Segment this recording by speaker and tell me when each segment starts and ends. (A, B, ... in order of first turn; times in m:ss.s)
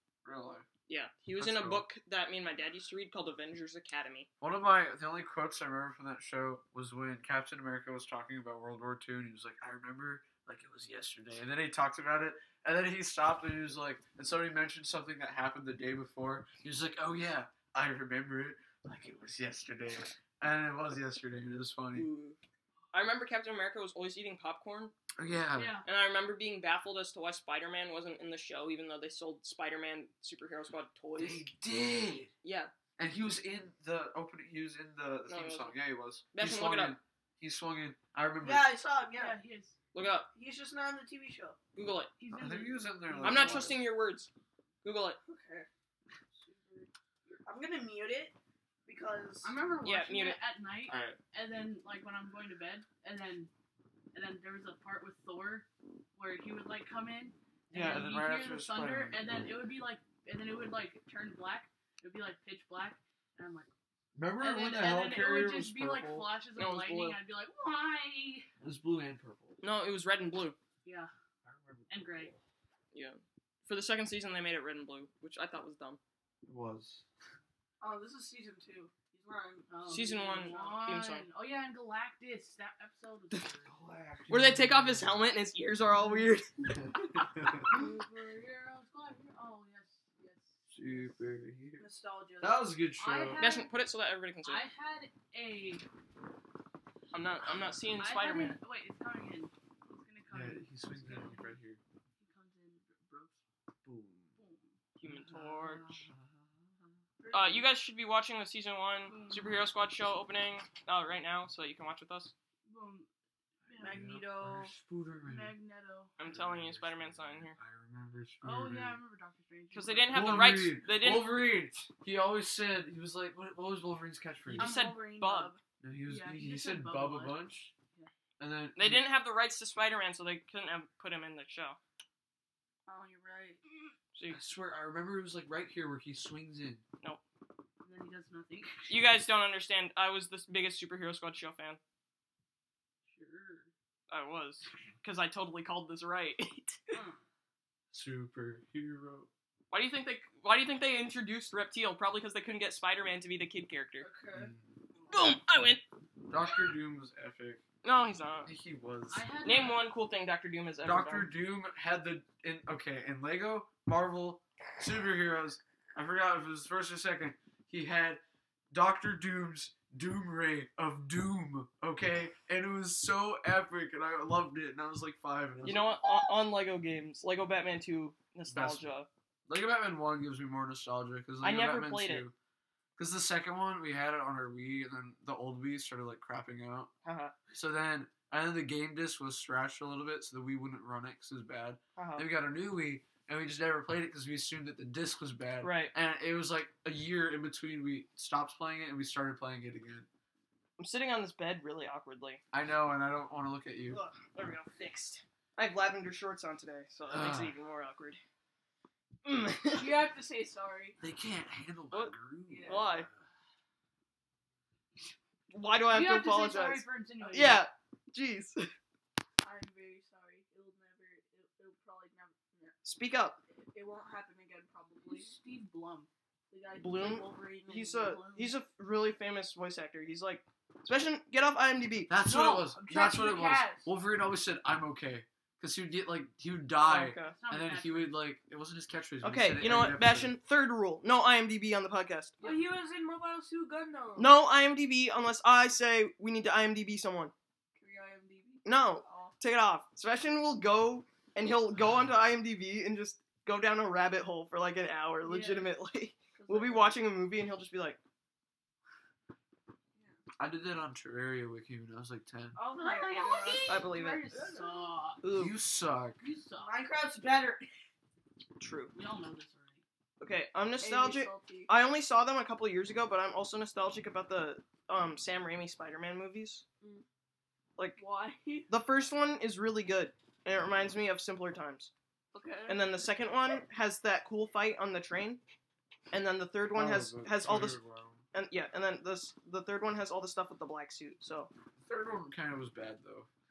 0:00.2-0:00.7 A
0:00.9-0:04.3 B
0:01.4-0:01.8 A
0:04.4-0:22.1 A
0:21.9-0:22.4 B
0:22.9-0:24.9 B
0:25.2-0:25.8 A
0:25.6-0:25.8 C
0:25.8-0:31.4 B
0:31.2-0:32.3 A
0:32.4-0:32.7 B
0:33.0-0:38.7 A
0:35.3-0:35.8 B
0:36.3-0:37.0 B
0:38.4-0:39.4 D
0:39.1-0:39.8 C
0:39.9-0:40.3 B
0:40.3-0:41.6 D
0:41.7-0:42.1 B
0:42.2-0:43.8 C
0:42.3-0:43.8 A
0:43.2-0:44.3 B
0:44.8-0:45.2 B
0:45.2-0:45.7 D
0:46.3-0:48.3 D
0:48.8-0:49.5 D
0:49.4-0:53.5 C
0:49.8-0:50.4 B
0:50.9-0:51.2 A
0:54.1-1:03.7 C
0:57.7-0:59.5 A
1:04.1-1:06.3 A
1:04.4-1:08.5 C
1:06.6-1:07.2 B
1:08.6-1:09.6 A
1:09.6-1:10.6 B
1:10.8-1:11.1 C
1:11.4-1:12.4 A
1:11.9-1:12.3 C
1:12.9-1:16.0 B
1:16.4-1:17.0 A
1:17.8-1:20.8 D
1:19.7-1:23.7 C
1:19.9-1:21.3 B
1:23.6-1:25.2 A
1:24.3-1:26.9 B
1:26.7-1:27.6 A
1:27.6-1:31.1 C
1:30.7-1:31.8 A
1:31.8-1:32.8 D
1:32.4-1:33.5 A
1:33.0-1:33.7 C
1:33.4-1:34.6 B
1:34.4-1:35.8 C
1:37.1-1:38.6 B
1:38.0-1:41.6 C
1:40.3-1:41.8 A
1:42.2-1:43.4 C
1:43.8-1:44.3 A
1:44.4-1:44.7 C
1:45.0-1:45.9 B
1:45.8-1:46.5 A
1:47.2-1:47.6 D
1:47.3-1:52.3 B
1:49.1-1:49.5 D
1:52.6-1:53.1 C
1:53.6-1:54.1 C
1:53.7-1:55.5 A
1:53.8-1:54.7 D
1:55.2-1:56.1 C
1:56.2-1:57.6 B
1:56.2-1:59.0 A
1:58.4-2:00.3 C
1:59.7-2:01.4 B
2:00.1-2:04.7 A
2:04.5-2:05.5 B
2:04.5-2:05.6 D
2:05.8-2:07.7 A
2:06.1-2:07.4 C
2:08.4-2:09.0 A
2:08.8-2:11.8 B
2:12.8-2:13.6 D
2:14.1-2:14.4 B
2:14.3-2:16.8 A
2:17.8-2:19.0 C
2:18.9-2:21.8 B
2:23.1-2:23.7 C
2:24.1-2:27.0 B
2:26.9-2:27.2 C
2:27.9-2:29.3 A
2:29.7-2:34.1 B
2:34.0-2:35.1 D
2:34.3-2:34.7 A
2:35.1-2:35.8 B
2:36.3-2:37.6 A
2:37.8-2:38.5 B
2:38.4-2:39.2 A
2:39.1-2:39.9 C
2:39.4-2:41.3 B
2:40.8-2:55.9 A
2:55.6-2:59.1 B
2:58.5-2:58.9 A
2:59.5-3:02.3 A
3:01.4-3:02.3 B
3:03.0-3:06.9 A
3:07.0-3:07.3 B
3:07.5-3:20.1 A
3:12.0-3:12.2 B
3:15.6-3:15.9 B
3:20.8-3:22.4 B
3:22.5-3:24.0 A
3:23.9-3:28.2 B
3:27.1-3:27.5 A
3:29.2-3:30.0 B
3:29.7-3:31.0 D
3:31.0-3:33.1 A
3:32.5-3:32.8 D
3:32.6-3:33.1 B
3:35.5-3:38.7 B
3:35.9-3:37.6 C
3:37.2-3:37.6 D
3:39.4-3:42.8 D
3:42.8-3:43.4 B
3:43.7-3:45.4 D
3:45.0-3:46.1 C
3:46.5-3:48.5 D
3:46.8-3:52.1 B
3:52.1-4:00.3 A
3:52.2-3:53.9 D
3:56.8-3:57.3 B
3:57.3-3:58.1 C
3:59.2-4:02.3 B
4:02.4-4:04.3 D
4:04.2-4:07.3 B
4:07.8-4:09.3 D
4:08.6-4:18.0 B
4:15.2-4:15.7 C
4:16.4-4:17.0 D
4:20.4-4:22.6 A
4:22.6-4:24.9 D
4:22.7-4:25.2 C
4:23.7-4:24.3 B
4:25.2-4:25.6 B
4:25.3-4:26.2 A
4:26.2-4:26.8 C
4:26.6-4:27.7 D
4:28.6-4:28.9 B
4:28.9-4:29.8 C
4:30.2-4:36.6 B
4:30.8-4:31.7 D
4:38.0-4:38.7 D
4:38.7-4:41.9 B
4:42.3-4:43.0 D
4:42.7-4:45.4 B
4:46.1-4:47.8 B
4:46.7-4:48.2 A
4:48.3-4:51.5 B
4:51.8-4:53.3 A